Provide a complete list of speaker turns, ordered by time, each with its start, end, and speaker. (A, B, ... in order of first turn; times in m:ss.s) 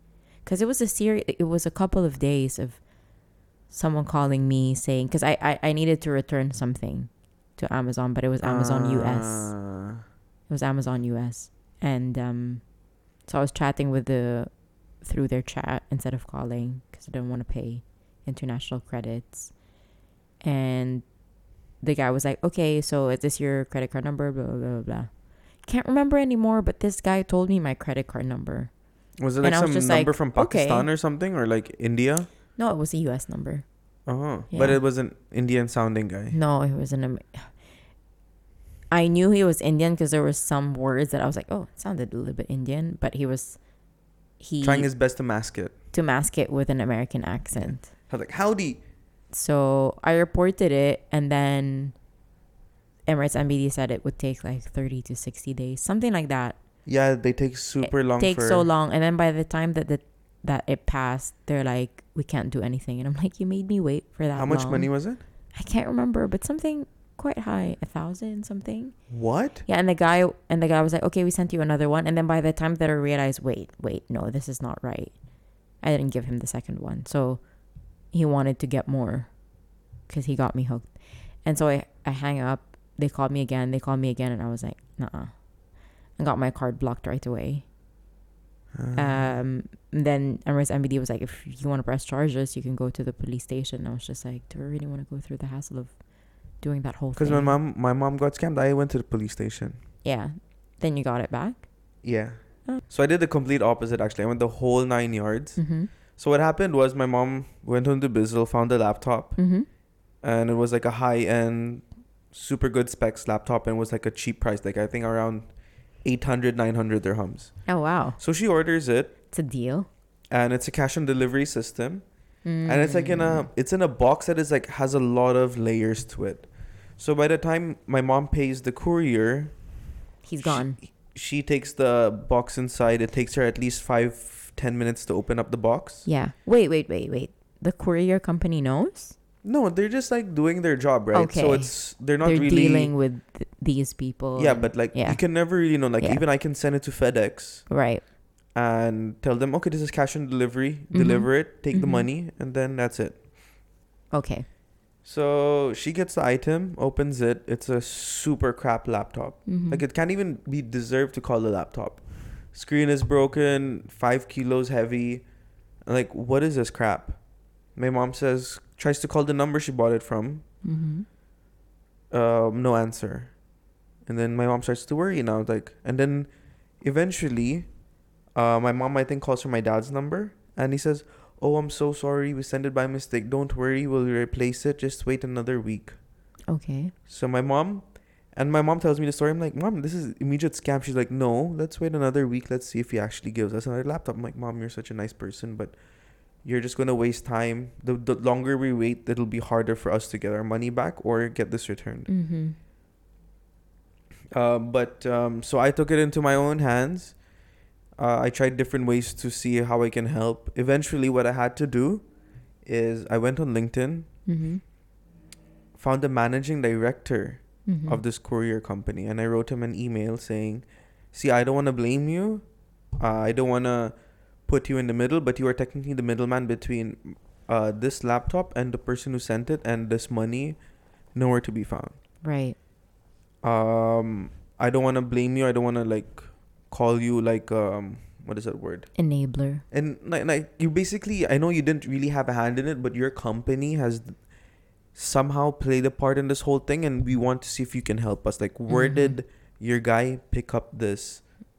0:00.4-0:02.8 A
0:03.7-0:09.5 A
0:08.4-0:10.0 B
0:10.5-0:12.6 A
0:13.3-0:14.5 A
0:15.0-0:19.5 A
0:20.4-0:21.0 A
0:21.8-0:25.1 A
0:25.6-0:28.7 A
0:29.2-0:32.3 B
0:29.4-0:30.9 A
0:32.6-0:33.6 A
0:34.1-0:36.4 B
0:34.5-0:34.8 A
0:36.3-0:37.5 A
0:38.9-0:43.6 A
0:44.4-0:44.9 A
0:44.6-0:45.7 B
0:45.9-0:47.9 A
0:47.6-0:48.8 B
0:49.3-0:52.0 A
0:53.1-0:56.6 A
0:56.9-0:58.7 B
0:57.8-1:04.9 A
1:04.4-1:05.2 B
1:05.5-1:09.0 A
1:09.1-1:09.6 B
1:09.7-1:15.1 A
1:15.8-1:17.4 A
1:18.1-1:19.3 A
1:20.1-1:20.9 A
1:21.4-1:25.3 A
1:26.2-1:27.6 A
1:28.7-1:29.3 B
1:29.0-1:35.9 A
1:36.6-1:37.6 A
1:37.2-1:39.8 B
1:40.0-1:41.6 A
1:42.0-1:45.6 B
1:45.6-1:45.9 A
1:46.2-1:49.4 B
1:49.4-1:49.7 A
1:50.2-1:55.5 B
1:56.0-1:57.5 B
1:57.7-1:58.2 A
1:58.2-1:59.1 B
1:59.3-1:59.9 A
2:00.3-2:02.0 B
2:02.4-2:03.5 A
2:02.7-2:06.5 B
2:07.0-2:09.5 B
2:10.2-2:10.8 A
2:10.4-2:16.1 B
2:16.1-2:19.2 A
2:19.4-2:22.9 B
2:21.1-2:25.2 A
2:24.4-2:27.7 B
2:27.7-2:28.0 A
2:28.6-2:33.2 B
2:30.9-2:32.1 A
2:34.1-2:34.5 A
2:35.0-2:45.2 B
2:39.5-2:39.8 A
2:45.9-2:47.2 B
2:47.8-2:50.4 B
2:50.6-2:51.1 A
2:52.1-2:53.3 B
2:54.1-2:56.3 B
2:56.8-2:57.7 B
2:58.4-3:06.0 B
3:06.5-3:06.9 A
3:07.1-3:07.8 B
3:08.4-3:15.8 B
3:16.4-3:22.1 B
3:22.1-3:22.6 A
3:24.3-3:27.2 B
3:28.0-3:32.0 B
3:32.6-3:34.1 B
3:34.3-3:34.6 A
3:35.8-3:42.4 B
3:37.7-3:38.0 A
3:43.0-3:43.9 B
3:44.5-3:50.6 B
3:51.2-3:52.0 B
3:52.2-3:52.6 A
3:53.4-3:58.9 B
3:59.0-3:59.6 A
3:59.7-4:04.2 B
4:05.0-4:11.2 B
4:08.7-4:09.2 A